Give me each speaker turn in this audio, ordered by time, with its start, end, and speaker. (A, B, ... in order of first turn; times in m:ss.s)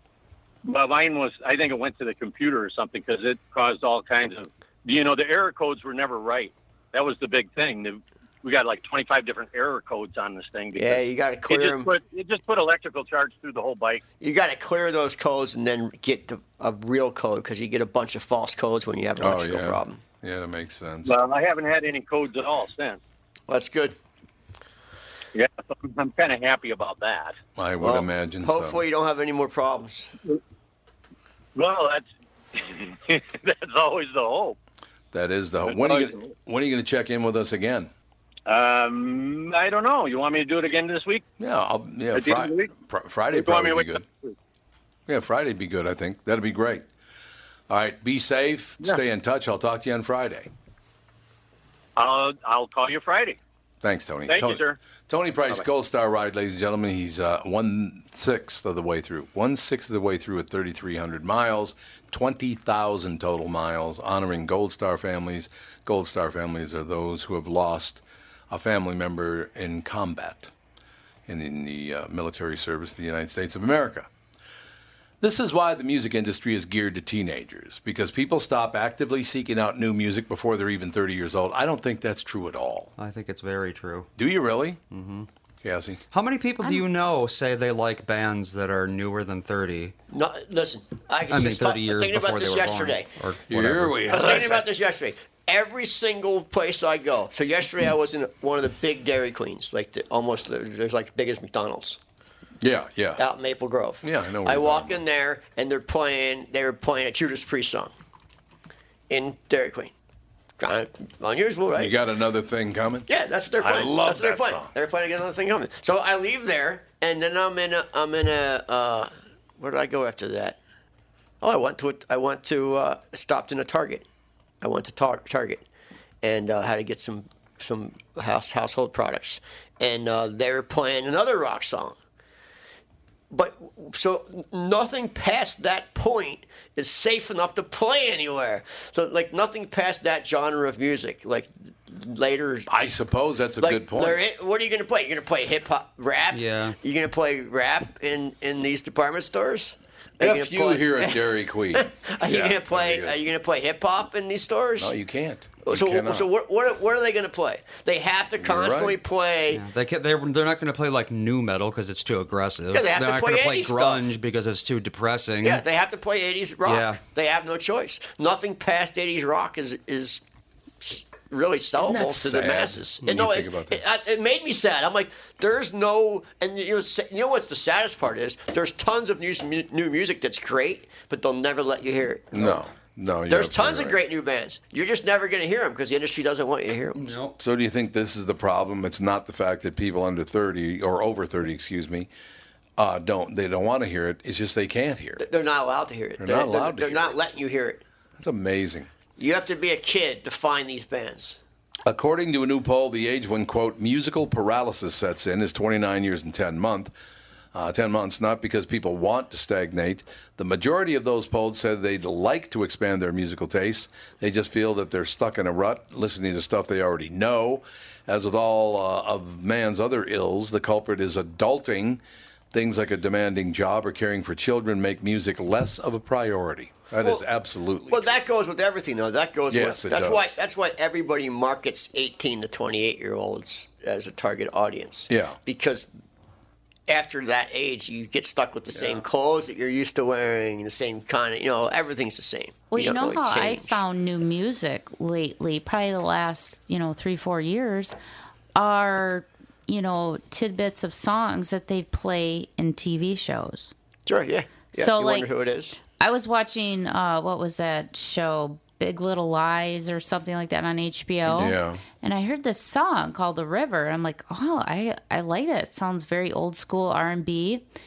0:00.6-0:14.0 A
0:10.7-0:11.9 B
0:14.2-0:20.0 B
0:19.2-0:21.1 C
0:21.0-0:23.0 A
0:23.5-0:24.0 B
0:25.3-0:27.4 A
0:27.6-0:28.8 C
0:27.8-0:30.1 B
0:31.5-0:34.6 A
0:35.1-0:37.9 C
0:35.6-0:36.3 A
0:38.4-0:41.2 A
0:41.4-0:44.0 C
0:42.1-0:42.7 A
0:43.3-0:44.3 A
0:45.1-0:46.9 C
0:47.7-0:50.5 C
0:52.0-0:53.4 A
0:53.8-1:10.5 C
0:54.3-0:54.8 A
1:11.3-1:14.1 C
1:15.2-1:22.9 C
1:23.0-1:24.1 D
1:24.2-1:24.8 C
1:24.9-1:25.3 D
1:25.6-1:26.0 C
1:26.1-1:29.9 D
1:30.1-1:33.1 B
1:31.3-1:34.0 D
1:33.5-1:34.7 C
1:34.1-1:42.0 B
1:42.6-1:43.2 C
1:43.2-1:47.9 B
1:44.0-1:45.0 C
1:49.1-1:49.9 B
1:50.6-1:51.9 B
1:51.7-1:53.1 C
1:53.1-2:00.6 B
1:53.6-1:54.7 C
2:01.4-2:04.0 B
2:04.6-2:05.6 B
2:06.2-2:12.0 B
2:13.3-2:22.7 B
2:22.7-2:24.2 C
2:23.6-2:31.2 B
2:26.3-2:26.8 D
2:30.2-2:33.2 C
2:31.7-2:34.9 B
2:34.8-2:36.3 C
2:35.6-2:39.6 B
2:38.4-2:39.0 C
2:39.5-2:45.6 D
2:42.7-2:44.0 B
2:45.4-2:50.2 B
2:46.6-2:47.0 D
2:50.8-3:02.6 B
2:51.8-2:53.8 C
3:02.3-3:04.0 C
3:03.3-3:07.2 B
3:06.9-3:07.3 D
3:07.4-3:12.1 C
3:12.8-3:15.2 C
3:15.2-3:17.8 B
3:16.2-3:17.2 C
3:18.2-3:18.9 C
3:19.2-3:21.4 B
3:21.8-3:26.9 C
3:27.5-3:42.0 C
3:42.5-3:48.2 C
3:47.9-3:55.9 B
3:49.5-3:50.4 C
3:55.1-3:55.4 C
3:56.9-4:03.8 B
3:58.7-3:59.0 C
4:02.7-4:07.9 E
4:08.5-4:13.7 E
4:14.0-4:15.8 B
4:14.7-4:15.3 E
4:15.8-4:27.6 E
4:21.3-4:21.8 C